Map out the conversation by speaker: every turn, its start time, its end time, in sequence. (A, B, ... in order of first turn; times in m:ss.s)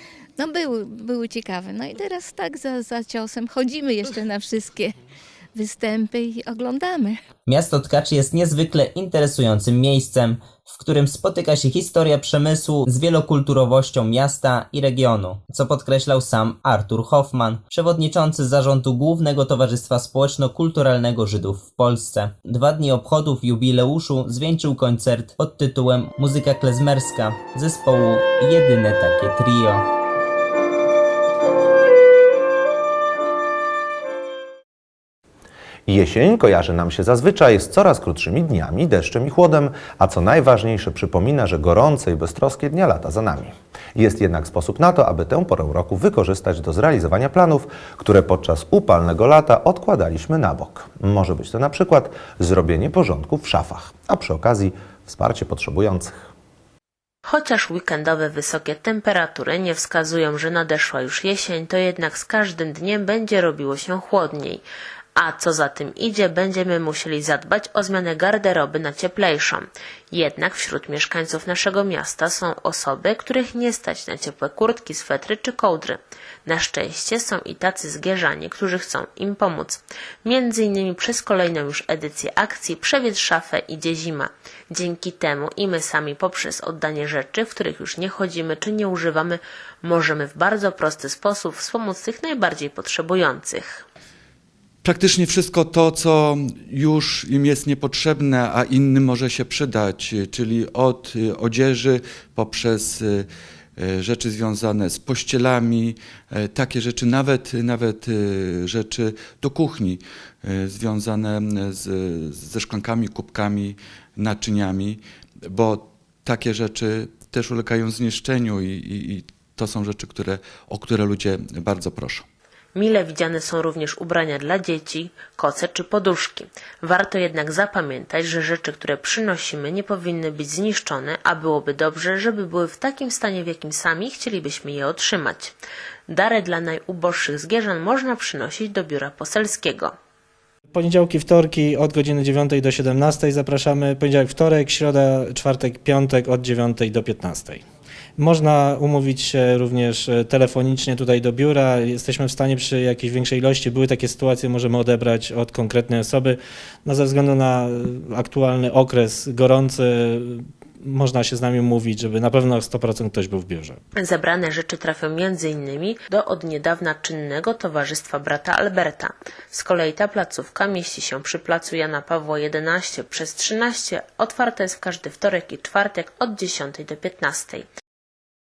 0:00.4-0:05.0 A
0:05.5-0:07.2 A
0:07.5-0:29.8 B
0:35.9-0:56.3 C
0:57.2-1:04.6 D
1:05.2-1:33.8 D
1:34.8-1:43.2 E
1:43.8-2:02.2 E
2:02.7-2:15.6 D
2:16.1-2:19.9 D
2:20.7-2:27.6 F
2:28.2-2:43.8 F
2:43.9-2:57.6 D